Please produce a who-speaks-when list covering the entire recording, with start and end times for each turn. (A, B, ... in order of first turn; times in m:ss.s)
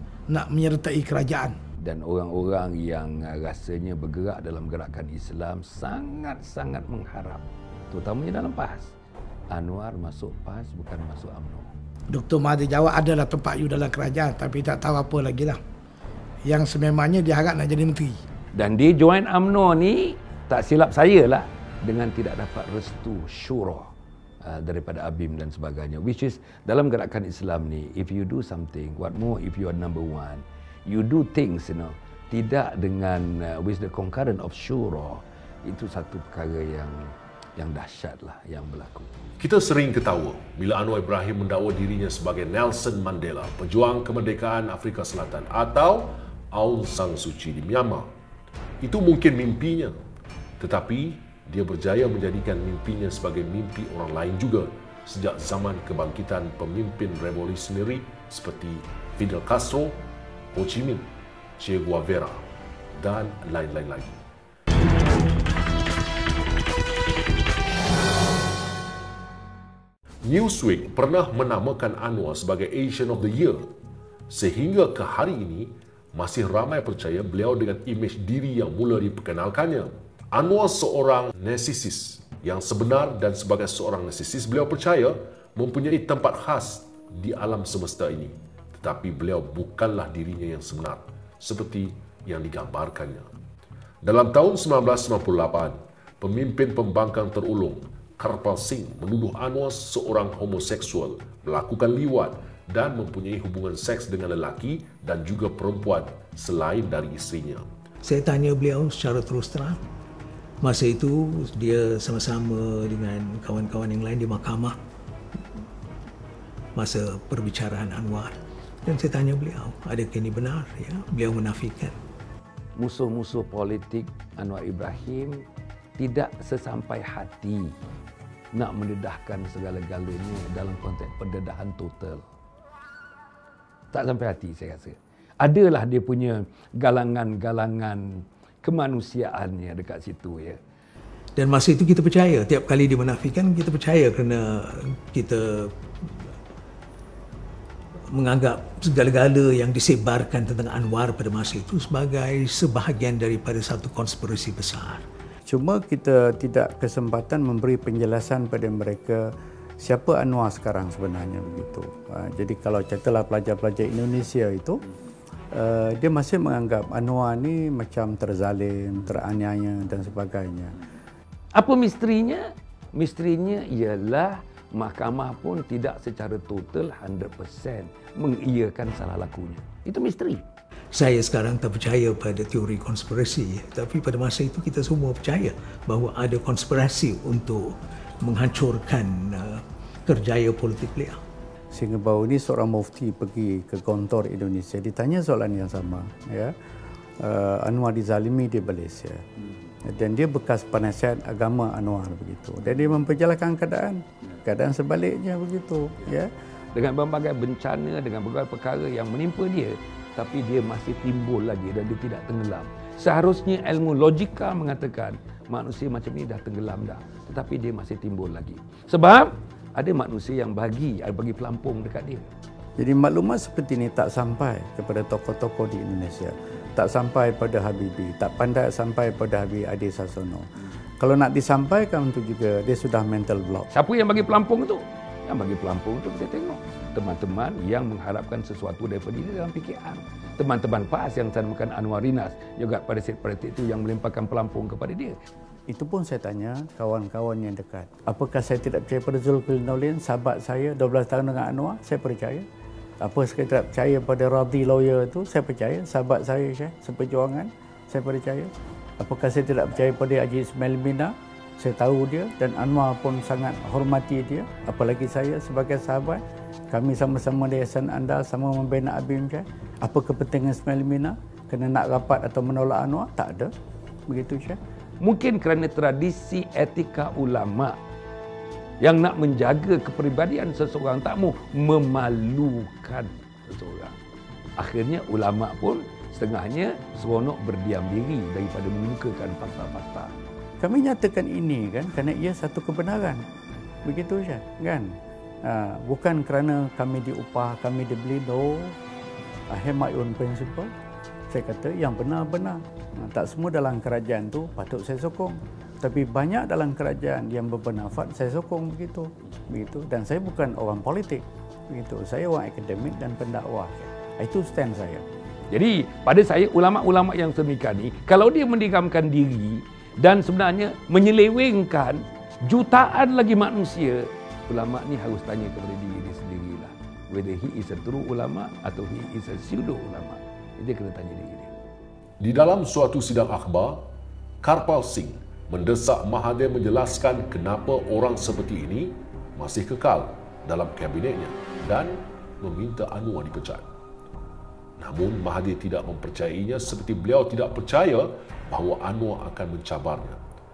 0:00.3-0:01.6 A
0:01.8-0:08.9 B
0:09.5-0:11.7 B
0:12.1-0:15.6 A
0:16.4-0:18.2 A
0:18.6-0:23.9 B
0:24.4-0:39.1 B
0:39.4-0:48.1 C
0:48.8-0:50.0 C
0:50.6-1:00.0 C
1:00.5-1:04.2 C
1:10.2-1:13.7 C
1:14.3-1:33.3 C
1:34.0-1:47.7 C
1:48.0-1:49.8 D
1:50.6-1:54.8 D
1:56.8-2:02.0 D
2:02.8-2:05.4 B
2:06.0-2:07.7 B
2:08.5-2:12.2 B
2:13.9-2:20.6 B
2:21.4-2:25.7 D
2:28.1-2:35.0 D
2:35.5-2:39.3 E
2:39.8-2:44.8 E
2:45.5-2:50.8 E
2:51.6-3:00.4 B
3:00.9-3:09.5 D
3:10.1-3:11.2 D
3:11.7-3:16.5 E
3:17.2-3:19.2 E
3:19.9-3:26.3 E
3:26.7-3:42.3 B
3:42.8-3:50.4 E
3:51.0-3:53.7 E
3:53.7-4:05.2 B
4:05.7-4:12.4 E
4:13.0-4:33.5 E
4:34.1-4:34.6 E
4:35.0-4:37.8 B
4:38.8-4:43.9 B
4:44.6-4:50.1 B
4:50.6-4:53.2 E
4:53.8-4:54.9 E
4:55.5-4:58.8 E
4:59.5-5:00.7 E
5:01.3-5:15.0 E
5:15.5-5:31.5 B
5:32.2-5:33.9 C
5:34.4-5:43.7 C
5:44.8-5:50.2 C